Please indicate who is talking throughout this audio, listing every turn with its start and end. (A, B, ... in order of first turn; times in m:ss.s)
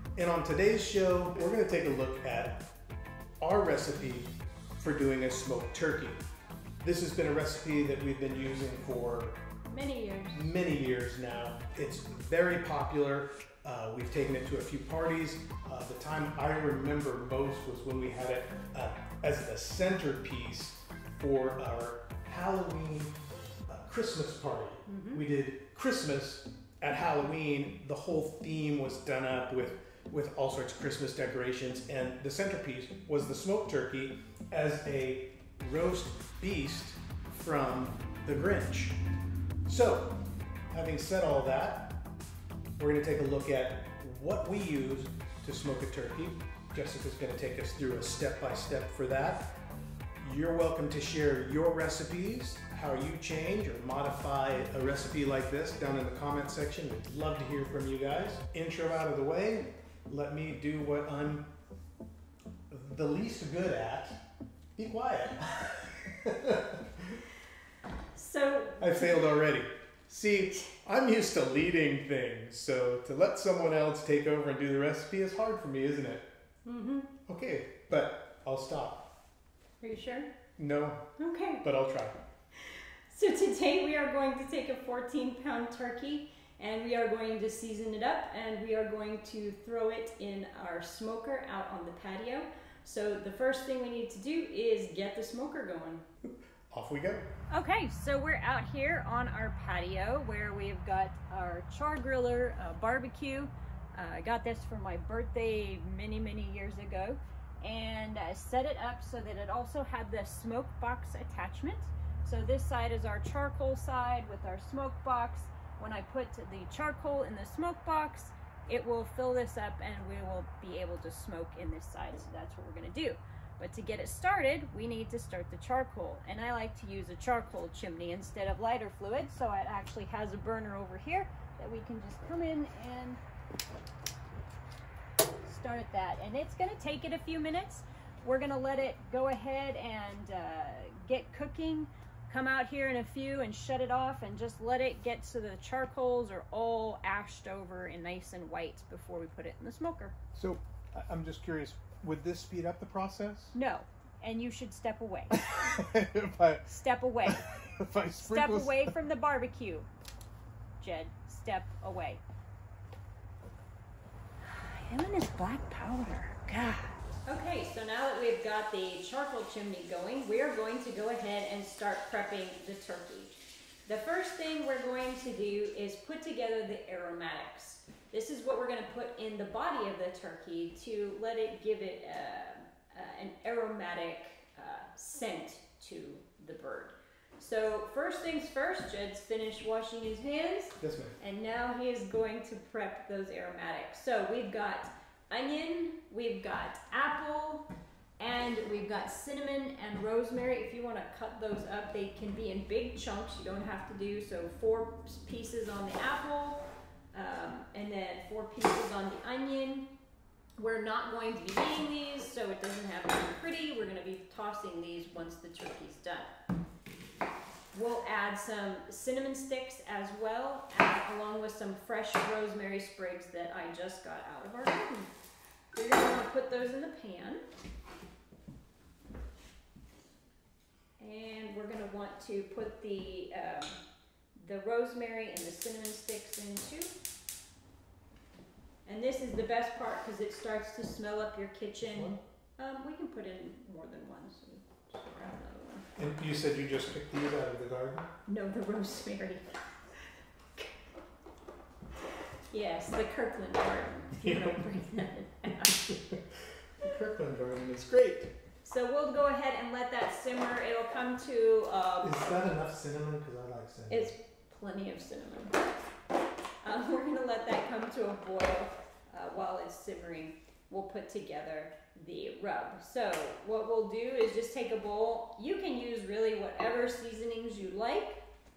0:00.2-0:02.7 A
0:03.4-0:06.2 A
0:06.8-0:09.4 A
0:09.7-0:10.5 B
0:10.3-0:23.1 A
0:23.7-0:39.0 A
0:24.9-0:25.2 B
0:39.6-0:40.2 A
0:40.7-0:42.0 A
0:42.8-0:49.5 A
0:50.2-1:01.5 A
1:02.7-1:04.2 A
1:04.8-1:07.2 A
1:08.1-1:09.2 B
1:08.8-1:16.3 A
1:16.6-1:17.1 B
1:17.3-1:19.1 A
1:19.8-1:20.3 B
1:20.6-1:21.0 A
1:21.2-1:21.6 B
1:21.6-1:22.2 A
1:22.6-1:36.0 B
1:36.2-1:37.3 A
1:37.5-2:13.2 B
2:15.4-2:30.2 B
2:30.3-2:33.5 A
2:33.5-2:35.4 B
2:35.3-2:38.9 A
2:36.7-2:37.4 B
2:38.2-2:39.9 B
2:40.8-2:42.2 B
2:44.4-2:53.3 B
2:53.8-3:17.7 B
3:10.8-3:11.2 A
3:18.2-3:26.6 B
3:27.1-3:29.9 B
3:30.6-3:36.3 B
3:37.7-3:45.1 B
3:45.7-3:47.4 B
3:51.0-3:53.8 B
3:54.4-3:56.9 B
3:58.8-4:05.9 B
4:01.9-4:02.2 A
4:06.0-4:08.1 A
4:08.3-4:09.4 B
4:12.5-4:15.8 B
4:14.2-4:14.8 A
4:15.6-4:18.3 A
4:18.6-4:22.2 B
4:22.0-4:24.1 A
4:23.9-4:25.6 B
4:26.6-4:38.2 B